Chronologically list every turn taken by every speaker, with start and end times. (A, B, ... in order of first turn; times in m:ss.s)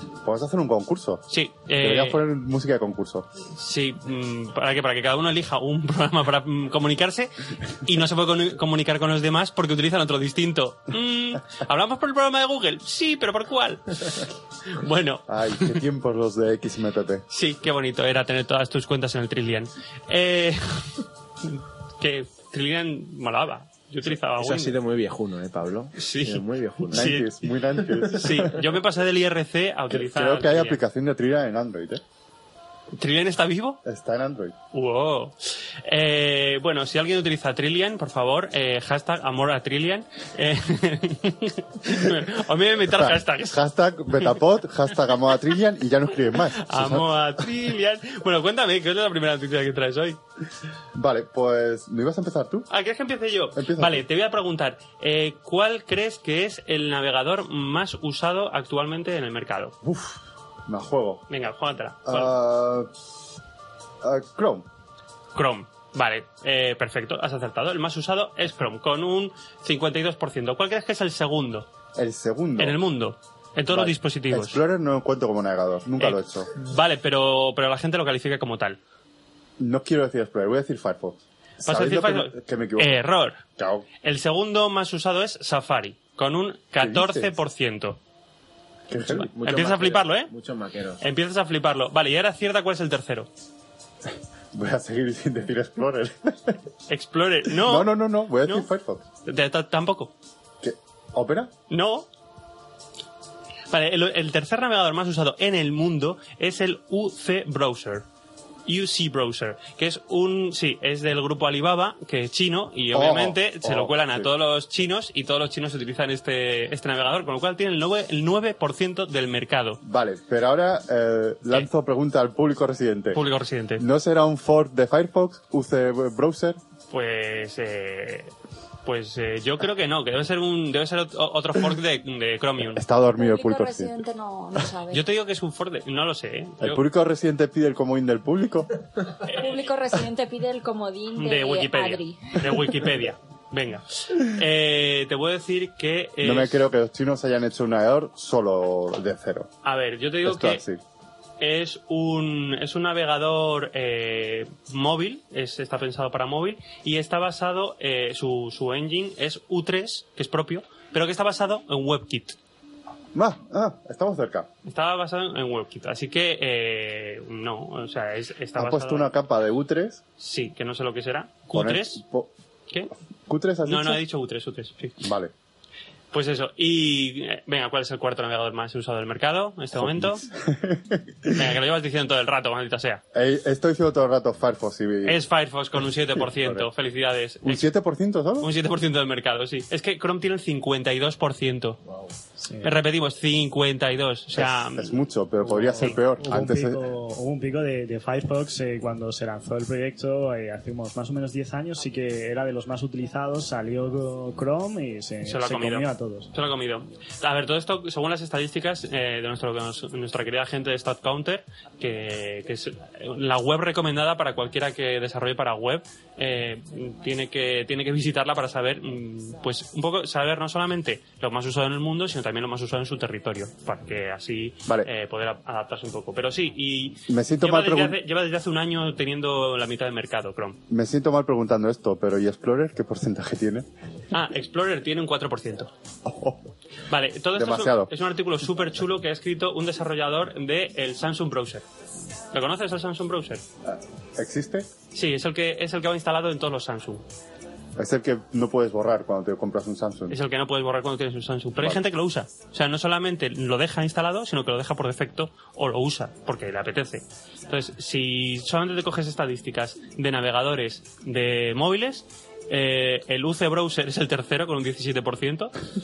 0:00.2-0:01.2 A
0:01.3-0:02.2 B
0:01.8-0:03.2 A
0:03.4-0:15.8 B
0:15.3-0:17.2 A
0:17.3-0:24.8 B
0:24.4-0:27.1 C
0:25.9-0:30.8 B
0:26.9-0:28.6 A
0:29.9-0:32.0 A
0:32.9-0:33.8 B
0:33.8-0:34.5 A
0:34.7-0:43.6 B
0:42.9-0:47.1 A
0:46.5-0:50.2 B
0:50.9-0:52.7 A
0:52.7-0:59.8 B
0:53.6-0:54.0 A
0:59.8-1:01.2 A
1:01.3-1:02.3 B
1:02.0-1:02.9 A
1:04.0-1:04.6 A
1:05.3-1:11.7 B
1:12.0-1:12.8 A
1:12.6-1:14.6 B
1:13.7-1:16.5 A
1:16.0-1:18.8 B
1:19.6-1:23.0 A
1:21.6-1:23.4 B
1:23.6-1:23.8 A
1:24.0-1:28.0 B
1:26.8-1:27.3 A
1:28.9-1:29.3 A
1:29.0-1:30.3 B
1:29.1-1:31.0 C
1:31.0-1:33.3 B
1:34.5-1:36.6 A
1:36.9-1:38.7 B
1:37.6-1:39.0 A
1:39.2-1:40.1 B
1:40.6-1:41.5 A
1:41.7-1:42.1 B
1:43.7-1:48.0 B
1:48.6-1:59.8 B
1:52.9-1:54.3 A
1:59.8-2:03.2 A
2:03.1-2:03.8 B
2:03.8-2:06.6 A
2:06.9-2:08.3 B
2:08.8-2:12.8 B
2:12.8-2:14.0 A
2:13.1-2:15.0 D
2:14.9-2:16.8 B
2:16.6-2:18.7 A
2:19.2-2:19.6 B
2:19.3-2:22.6 D
2:21.1-2:26.7 B
2:26.2-2:29.5 A
2:29.6-2:30.6 B
2:30.2-2:30.8 A
2:31.4-2:42.4 B
2:43.1-2:44.5 A
2:44.6-2:49.1 B
2:48.6-2:50.0 A
2:50.2-2:52.0 B
2:51.5-2:52.3 A
2:53.3-2:54.0 A
2:53.6-2:55.1 B
2:55.0-2:55.3 A
2:56.1-3:00.2 B
2:59.8-3:01.4 A
3:01.3-3:03.0 B
3:03.1-3:05.2 A
3:05.0-3:07.7 B
3:06.2-3:06.7 A
3:07.4-3:08.5 A
3:08.4-3:11.8 B
3:12.4-3:12.7 E
3:12.6-3:15.0 B
3:14.4-3:16.8 A
3:15.5-3:26.3 E
3:25.2-3:50.6 B
3:47.1-3:48.0 A
3:50.7-3:53.6 A
3:54.1-3:55.7 B
3:56.0-3:56.4 A
3:56.9-4:01.6 B
3:57.3-3:57.9 A
4:02.3-4:03.4 B
4:03.6-4:04.7 A
4:04.9-4:07.0 B
4:07.8-4:10.2 A
4:10.1-4:25.5 B